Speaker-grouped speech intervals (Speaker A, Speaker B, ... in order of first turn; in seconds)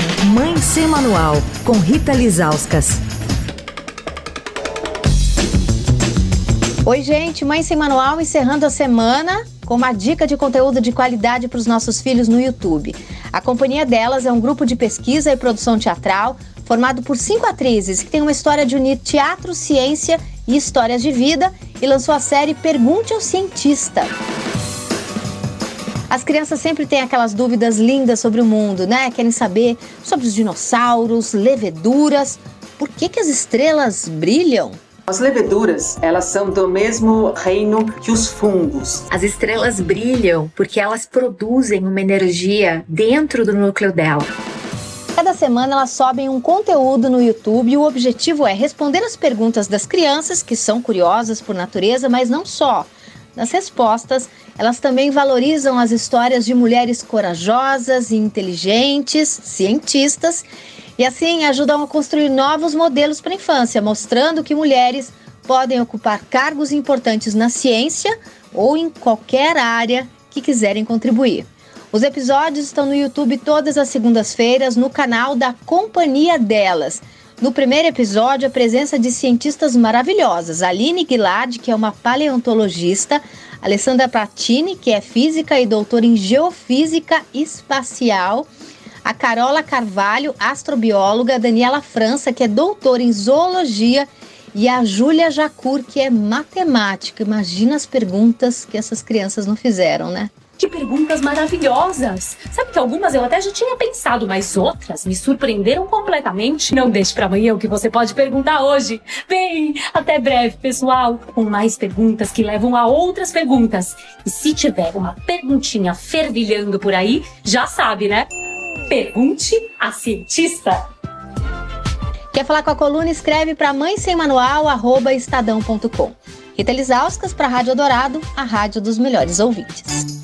Speaker A: 0.2-3.0
Speaker B: 6.8-24.1, 26.1-34.8, 45.1-60.5, 61.0-88.5, 89.0-100.3, 122.3-130.1
Speaker C: 35.1-39.0
Speaker D: 39.1-44.3
Speaker E: 100.6-118.3, 118.9-120.9